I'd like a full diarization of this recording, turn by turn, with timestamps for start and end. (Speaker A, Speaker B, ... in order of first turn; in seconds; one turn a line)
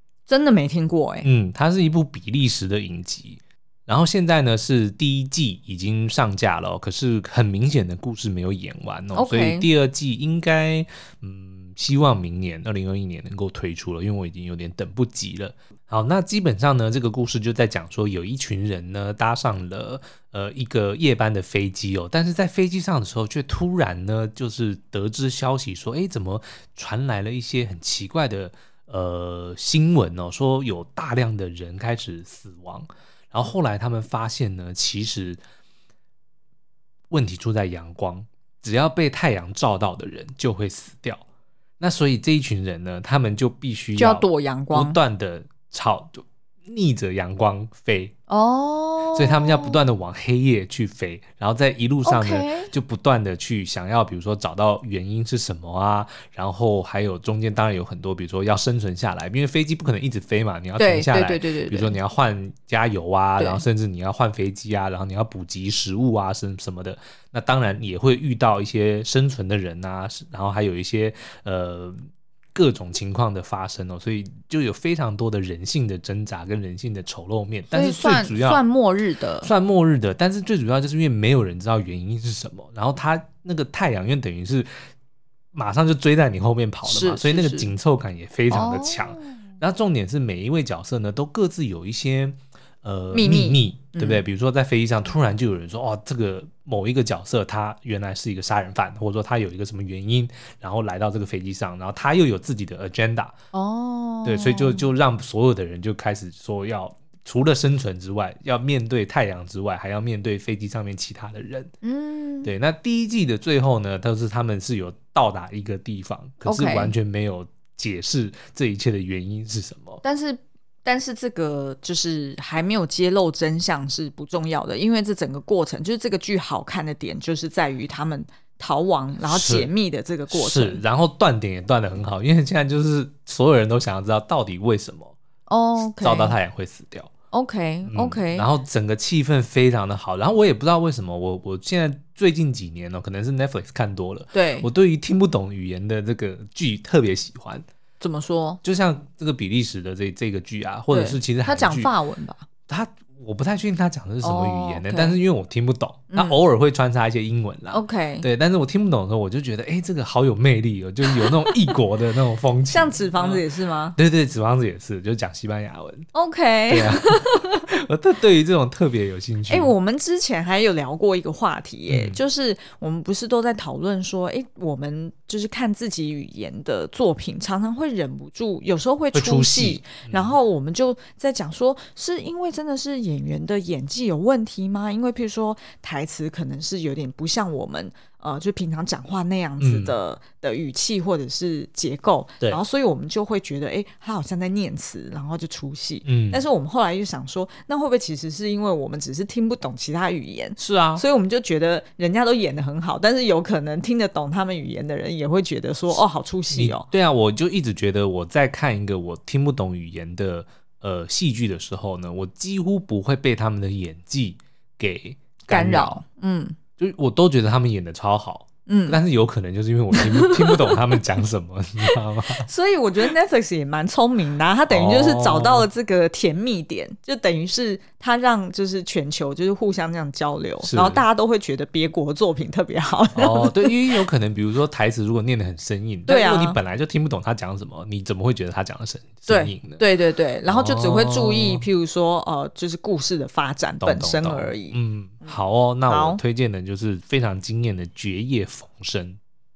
Speaker A: 0.3-1.3
Speaker B: 1.2-35.4
Speaker A: 9.1-9.7
Speaker B: 37.1-41.2
Speaker B: 41.8-48.1
Speaker A: 44.0-45.0
Speaker A: 48.3-49.8
Speaker B: 49.1-72.0
Speaker A: 52.0-52.7
Speaker A: 60.8-62.0
Speaker B: 72.5-78.6
Speaker A: 77.7-79.5
Speaker B: 79.4-84.7
Speaker B: 85.5-103.3
Speaker A: 86.8-87.7
Speaker A: 88.5-89.4
Speaker A: 93.1-94.2
Speaker A: 103.5-104.9
Speaker B: 104.2-111.7
Speaker A: 111.8-112.5
Speaker B: 112.4-120.0
Speaker A: 116.4-116.9
Speaker A: 120.0-130.8
Speaker B: 129.3-129.7
Speaker B: 130.3-135.2
Speaker A: 135.5-136.3
Speaker B: 136.0-137.1
Speaker A: 137.3-138.5
Speaker B: 137.9-147.6
Speaker A: 144.3-144.7
Speaker A: 148.0-148.6
Speaker B: 148.6-151.9
Speaker A: 150.9-152.5
Speaker B: 152.7-163.4
Speaker A: 154.2-155.2
Speaker A: 156.1-156.4
Speaker A: 157.7-158.3
Speaker A: 161.1-161.8
Speaker A: 162.7-164.0
Speaker B: 164.0-166.1
Speaker A: 166.1-167.7
Speaker B: 166.7-169.7
Speaker A: 169.5-206.9
Speaker B: 171.9-172.2
Speaker B: 179.1-180.3
Speaker B: 189.6-189.9
Speaker B: 196.1-196.4
Speaker B: 200.6-201.0
Speaker B: 206.5-216.0
Speaker A: 215.5-216.6
Speaker B: 216.8-222.5
Speaker A: 218.7-219.0
Speaker A: 219.9-220.8
Speaker A: 222.4-234.0
Speaker B: 224.7-225.7
Speaker B: 230.6-231.0
Speaker B: 233.2-239.8
Speaker A: 236.1-236.6
Speaker A: 239.3-245.4
Speaker B: 240.5-241.7
Speaker B: 243.8-249.2
Speaker A: 245.9-246.2